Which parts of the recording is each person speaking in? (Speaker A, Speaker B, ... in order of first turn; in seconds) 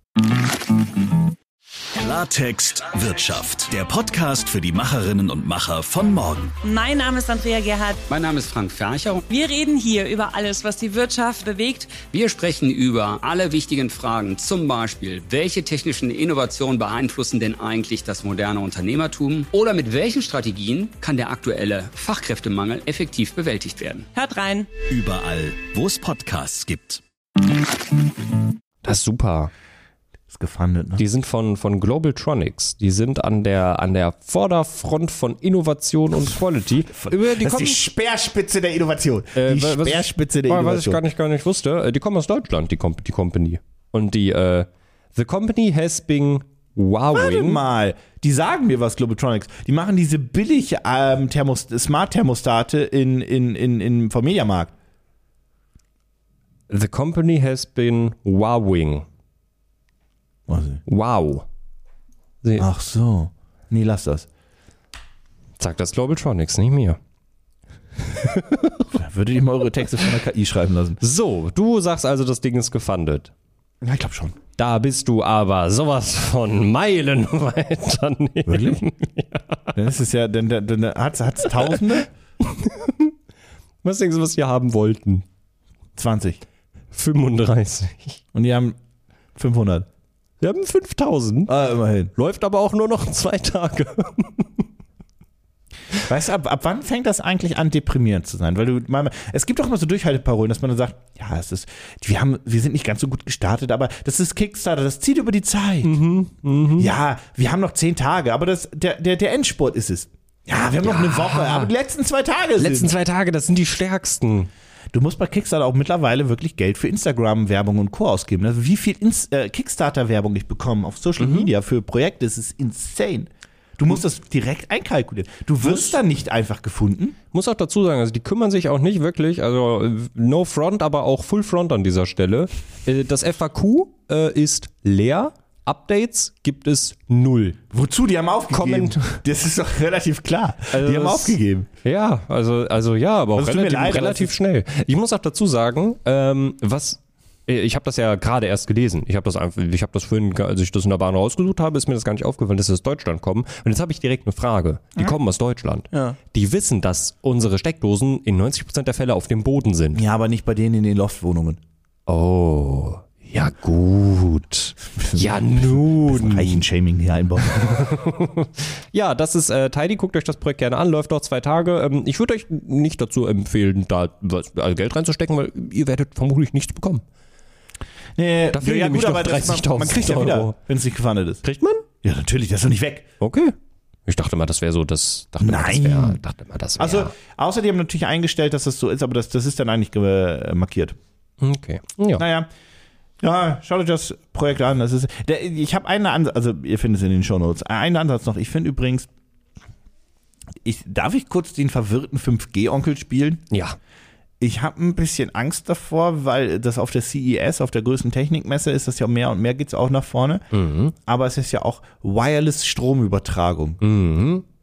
Speaker A: 2.0-6.5, 24.9-27.0
Speaker B: 6.6-8.0, 9.3-12.0, 24.1-24.7
Speaker C: 8.1-9.2, 12.1-24.1
Speaker D: 28.8-29.5, 31.0-37.8, 39.3-47.6, 56.7-59.0, 60.9-61.5, 65.6-67.0, 68.0-68.9, 71.0-73.3, 74.6-79.7, 82.4-83.1, 83.8-85.2, 86.9-88.2, 90.4-91.5, 92.1-94.6, 105.8-106.9, 110.8-111.7, 112.6-114.5, 121.2-121.5, 125.6-125.9, 127.3-137.6, 138.5-139.2, 140.7-160.0, 162.1-166.6, 167.4-177.0, 178.5-180.6, 181.4-181.8, 183.2-183.5, 184.1-187.1, 191.4-192.2, 203.5-203.8, 210.5-210.9, 213.8-214.4
Speaker E: 30.3-31.0, 36.9-41.0, 47.1-54.7, 60.5-60.8, 62.6-64.3, 68.9-71.0, 73.8-74.3, 78.5-78.8, 79.7-82.1, 86.0-86.4, 88.3-88.8, 89.3-89.9, 91.5-92.1, 96.0-106.0, 106.8-112.9, 114.9-127.2, 137.7-141.7, 143.3-144.3, 155.9-156.2, 159.9-161.6, 165.0-167.9, 178.2-181.4, 182.0-183.1, 185.4-186.2, 186.8-190.9, 192.2-192.5, 193.2-199.1, 200.6-203.4, 204.4-210.5, 211.0-213.8